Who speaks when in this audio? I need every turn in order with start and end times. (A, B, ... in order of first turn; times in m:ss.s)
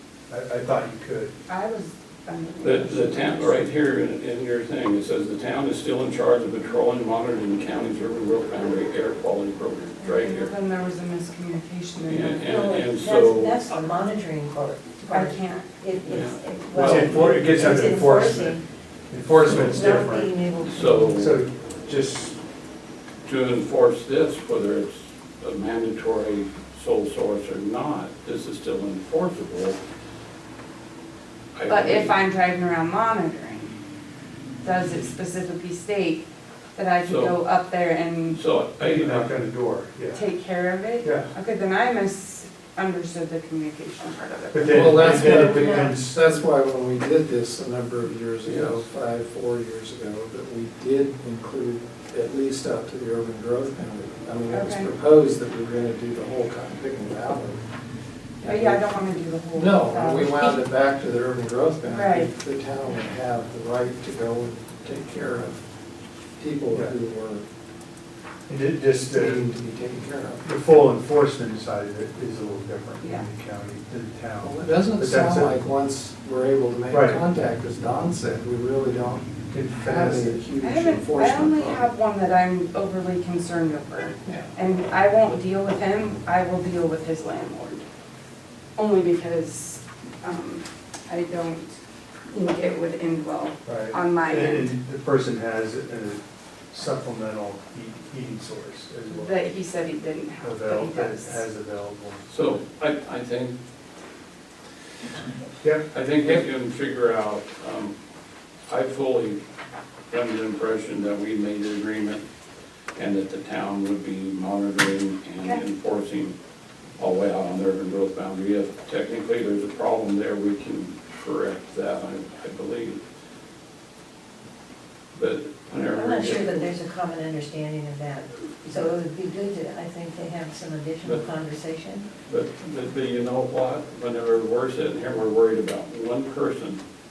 0:00.3-0:01.3 A
0:01.5-0:03.6 B
0:02.6-0:10.5 C
0:10.0-0:12.4 B
0:12.1-0:13.8 C
0:12.4-0:18.6 D
0:15.1-0:15.7 B
0:16.0-0:17.4 C
0:16.8-0:18.6 A
0:19.1-0:20.3 A
0:19.4-0:19.7 C
0:19.6-0:21.2 D
0:20.6-0:21.4 C
0:21.1-0:22.4 A
0:23.2-0:29.8 C
0:31.5-0:32.2 C
0:31.7-0:33.7 B
0:34.6-0:38.4 B
0:37.0-0:37.4 C
0:38.3-0:39.4 C
0:38.8-0:40.3 A
0:40.1-0:45.2 B
0:41.0-0:41.3 A
0:44.5-0:46.1 A
0:44.6-0:57.6 E
0:45.3-0:45.9 D
0:48.4-0:48.8 C
0:54.5-0:54.9 B
0:58.4-1:00.6 B
0:58.4-0:58.9 E
0:59.5-1:05.6 E
1:01.9-1:02.3 B
1:06.4-1:07.4 E
1:06.7-1:07.0 A
1:08.5-1:09.5 A
1:09.1-1:10.4 E
1:10.4-1:15.5 A
1:13.0-1:13.3 B
1:14.4-1:21.9 E
1:16.9-1:17.2 A
1:19.5-1:20.4 A
1:20.6-1:27.8 B
1:24.3-1:24.5 E
1:28.8-1:31.8 B
1:32.3-1:34.7 B
1:33.6-1:39.4 A
1:39.1-1:41.4 B
1:40.4-1:42.6 A
1:42.3-1:43.6 C
1:45.6-1:45.9 A
1:45.9-1:47.9 C
1:48.7-1:49.4 C
1:50.1-1:52.3 C
1:53.0-1:56.4 C
1:57.0-2:03.0 C
2:05.1-2:06.7 C
2:05.8-2:12.1 D
2:12.3-2:16.8 C